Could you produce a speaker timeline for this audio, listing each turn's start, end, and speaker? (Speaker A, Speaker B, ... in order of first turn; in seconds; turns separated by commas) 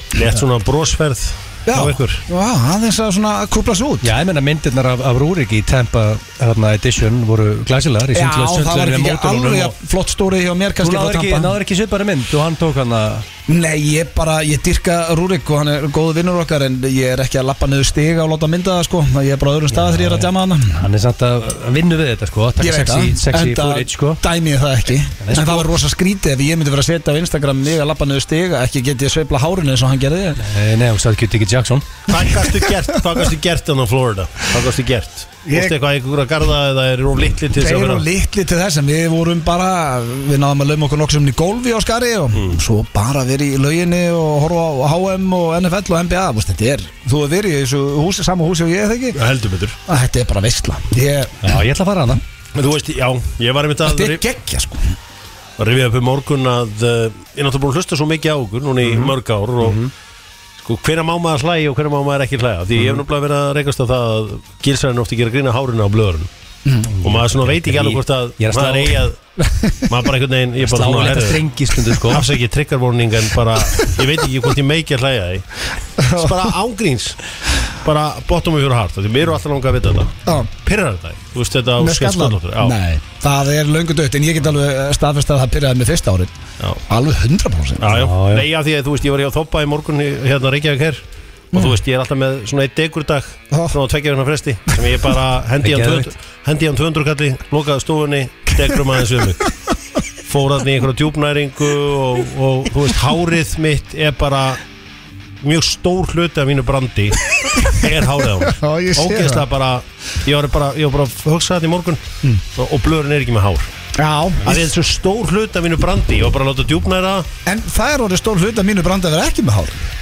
Speaker A: 0.1-2.2, Speaker B: 1.7-4.1, Speaker C: 4.0-9.8, Speaker B: 8.1-11.6, Speaker C: 10.8-13.3, Speaker B: 13.5-20.8, Speaker C: 19.7-24.2, Speaker B: 22.6-30.4, Speaker C: 25.2-25.7, Speaker C: 30.4-31.9, Speaker A: 32.1-38.1, Speaker B: 32.1-33.3, Speaker B: 35.5-35.8, Speaker B: 37.6-49.2, Speaker A: 49.1-49.8, Speaker B: 49.9-51.6, Speaker C: 51.4-52.2, Speaker A: 52.5-54.2, Speaker B: 53.8-55.0, Speaker A: 55.6-59.8, Speaker C: 58.9-59.9, Speaker A: 60.6-66.3, Speaker C: 62.8-63.0, Speaker B: 66.7-66.9, Speaker C: 66.9-69.0, Speaker A: 67.0-69.2, Speaker B: 69.4-69.9, Speaker A: 69.9-75.5, Speaker C: 70.6-72.3, Speaker B: 76.0-76.5, Speaker A: 76.1-77.3, Speaker A: 77.8-82.8, Speaker B: 80.3-80.5, Speaker B: 81.8-86.3, Speaker B: 86.9-88.0, Speaker A: 87.8-91.0, Speaker C: 87.9-88.5, Speaker A: 91.5-99.5, Speaker B: 91.5-91.8, Speaker C: 95.6-96.1, Speaker B: 98.6-99.0, Speaker A: 100.3-104.6, Speaker A: 105.4-112.0, Speaker B: 108.4-109.5, Speaker A: 112.5-113.7, Speaker B: 114.0-114.7, Speaker A: 114.4-117.3, Speaker B: 117.5-119.9